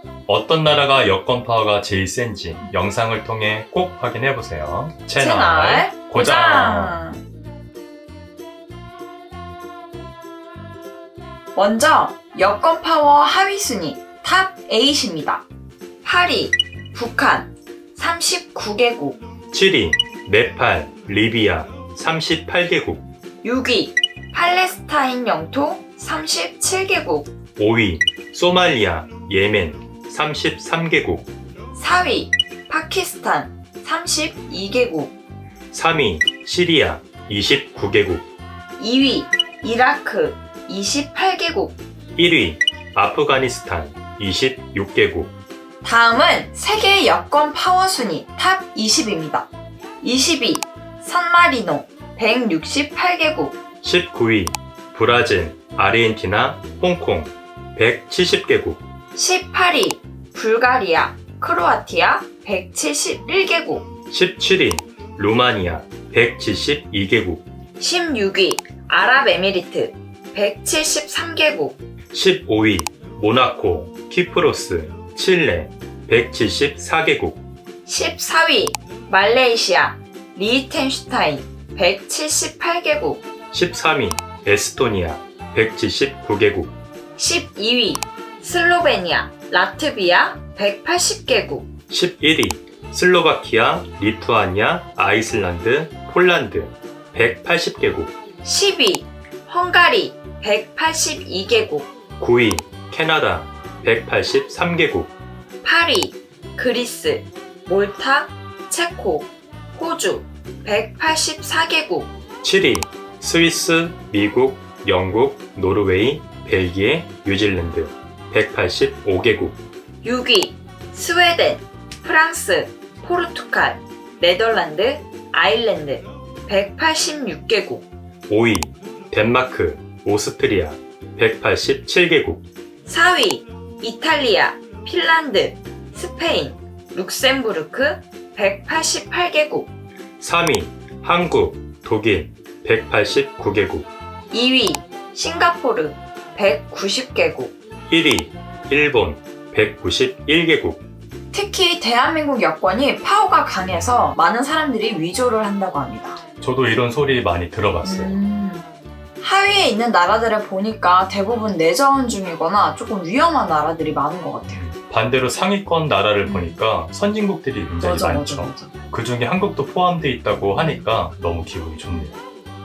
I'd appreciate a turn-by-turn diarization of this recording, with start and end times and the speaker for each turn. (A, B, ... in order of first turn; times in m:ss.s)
0:00.3-0:07.0 A
0:05.2-0:07.2 B
0:11.6-0:15.4 B
0:16.0-0:19.2 B
0:19.5-0:23.1 A
0:23.4-0:27.3 B
0:27.6-0:31.3 A
0:31.7-0:35.2 B
0:35.7-0:38.2 A
0:38.8-0:41.8 B
0:42.2-0:45.3 A
0:45.8-0:49.5 B
0:50.0-0:53.6 B
0:53.8-0:58.8 A
0:59.2-1:03.9 B
1:04.1-1:07.4 A
1:07.8-1:11.8 B
1:12.1-1:17.4 A
1:17.8-1:23.2 B
1:23.5-1:26.7 A
1:27.2-1:31.7 B
1:31.9-1:38.1 A
1:38.4-1:41.9 B
1:42.2-1:45.1 A
1:45.6-1:52.1 B
1:52.4-1:59.6 A
2:00.0-2:07.9 B
2:08.3-2:12.5 A
2:12.9-2:19.7 B
2:20.2-2:23.9 A
2:24.3-2:27.6 B
2:27.9-2:30.8 A
2:31.3-2:36.2 B
2:33.7-2:33.9 A
2:36.4-2:38.2 A
2:37.8-2:38.6 B
2:39.2-2:44.6 B
2:44.5-2:52.2 A
2:46.2-2:46.6 B
2:47.8-2:48.7 B
2:50.5-2:50.9 B